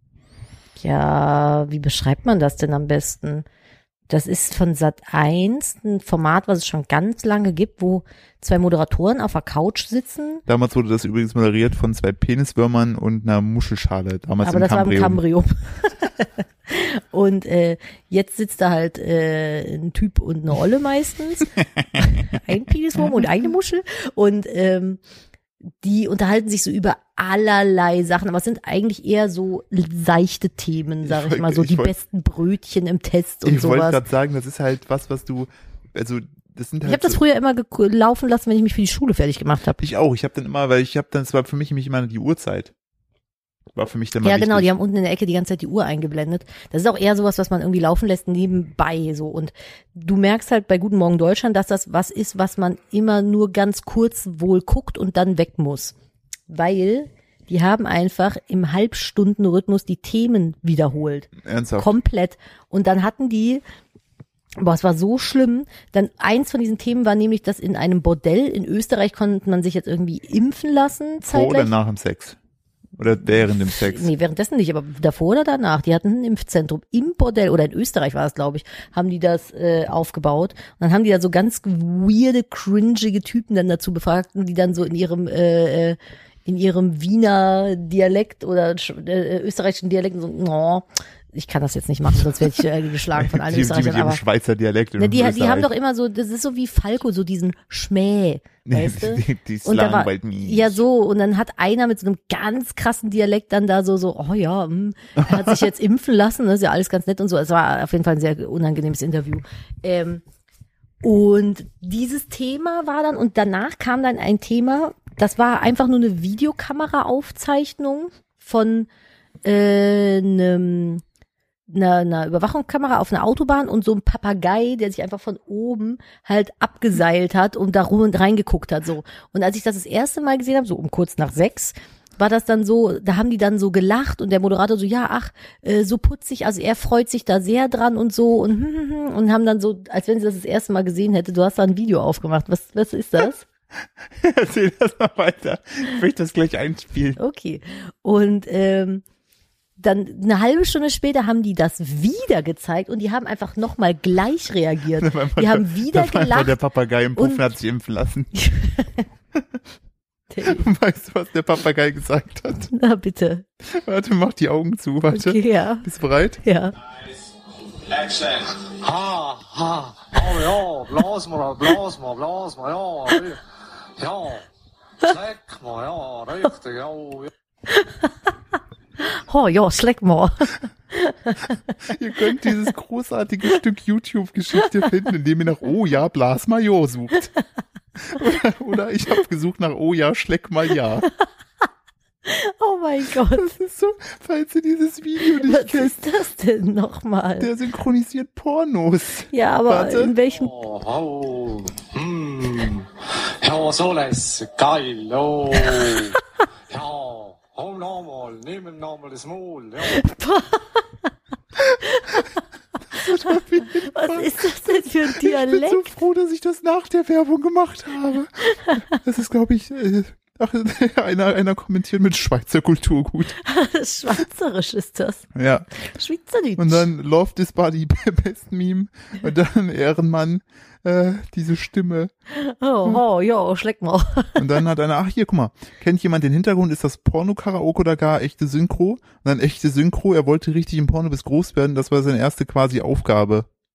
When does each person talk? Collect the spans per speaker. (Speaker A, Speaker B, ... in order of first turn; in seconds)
Speaker A: 0.8-3.5, 4.1-10.4, 14.4-25.0, 25.8-34.0, 36.9-39.9, 44.2-56.0, 56.5-63.6, 64.6-71.7, 73.3-94.2, 95.0-110.2, 111.0-118.9, 119.4-121.0, 121.7-143.4, 147.2-149.0, 149.8-156.6, 157.2-157.4, 158.3-159.1, 160.3-160.7, 162.7-163.4, 165.1-165.9, 166.4-166.8, 177.7-178.2, 179.0-181.6, 184.6-184.9, 192.2-193.5, 195.2-197.5, 199.3-200.5, 205.7-206.1, 209.8-210.8, 211.7-212.3, 213.3-215.9, 223.4-226.9, 232.3-234.6
Speaker B: 10.5-15.2, 31.0-31.9, 33.5-37.2, 39.8-42.7, 43.8-44.7, 61.4-61.9, 71.3-72.4, 73.0-74.1, 93.2-95.7, 98.7-100.8, 105.2-105.5, 144.2-147.2, 155.0-158.3, 160.4-162.7, 163.6-166.4, 181.8-187.3, 188.0-191.1, 193.3-196.0, 197.4-200.1, 212.9-223.4, 225.3-225.7, 226.6-232.1, 234.4-243.5
Speaker C: 167.8-173.4, 174.0-174.5, 175.0-177.3, 200.3-210.1